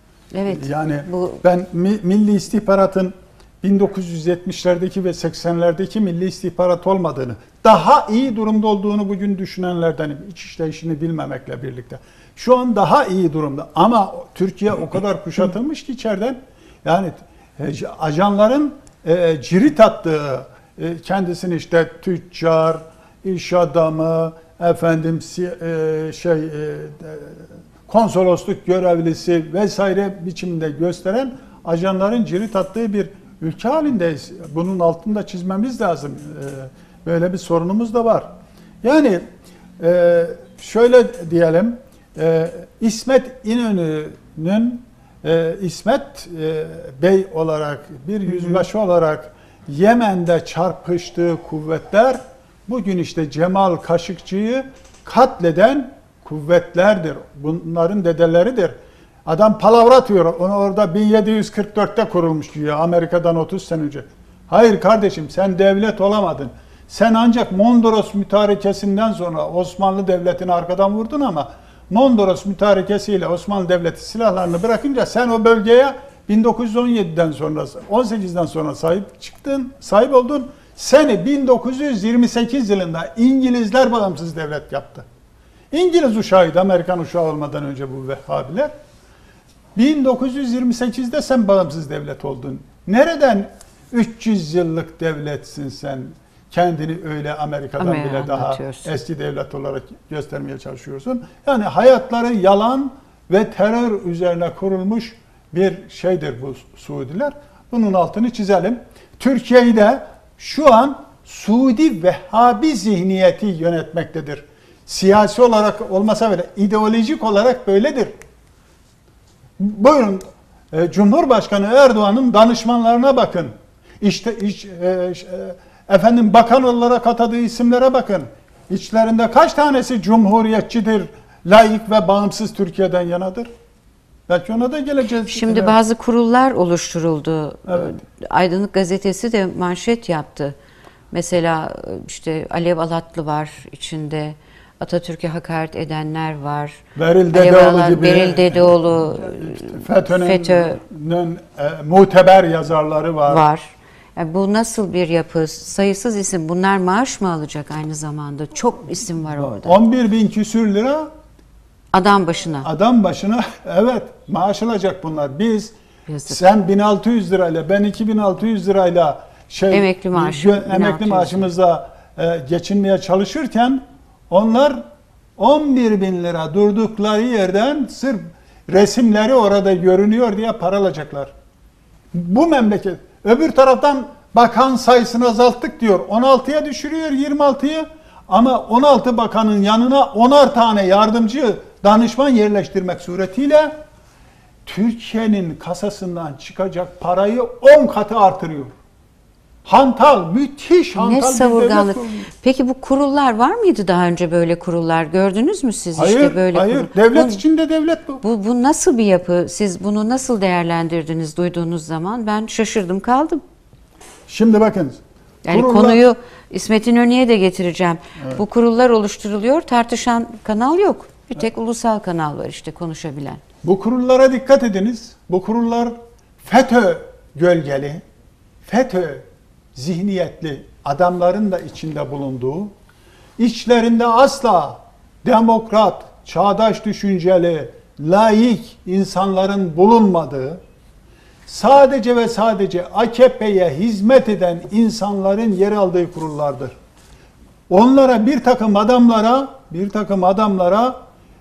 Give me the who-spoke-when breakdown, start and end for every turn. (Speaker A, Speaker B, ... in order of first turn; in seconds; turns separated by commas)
Speaker A: 0.3-1.4, Speaker B: 0.5-38.3, Speaker B: 38.8-39.2, Speaker B: 39.8-58.8, Speaker B: 59.3-85.1, Speaker B: 85.7-88.7, Speaker B: 89.8-118.1, Speaker A: 97.8-98.9, Speaker B: 119.6-133.5, Speaker B: 134.3-135.8, Speaker A: 135.3-140.6, Speaker B: 137.7-137.9, Speaker A: 141.1-150.8, Speaker B: 147.0-153.4, Speaker A: 153.3-159.8, Speaker B: 159.4-161.1, Speaker A: 161.9-162.7, Speaker B: 162.6-165.7, Speaker A: 166.1-166.4, Speaker B: 166.3-174.8, Speaker A: 169.7-171.5, Speaker B: 175.4-181.3, Speaker B: 182.1-193.8, Speaker B: 194.7-198.7, Speaker B: 199.7-202.3, Speaker A: 200.9-207.4, Speaker B: 206.0-208.2, Speaker A: 208.2-213.4, Speaker B: 214.3-216.0, Speaker A: 215.4-223.4, Speaker B: 223.6-228.0, Speaker B: 228.7-232.7, Speaker B: 233.4-240.6, Speaker B: 241.5-246.8, Speaker B: 247.7-251.0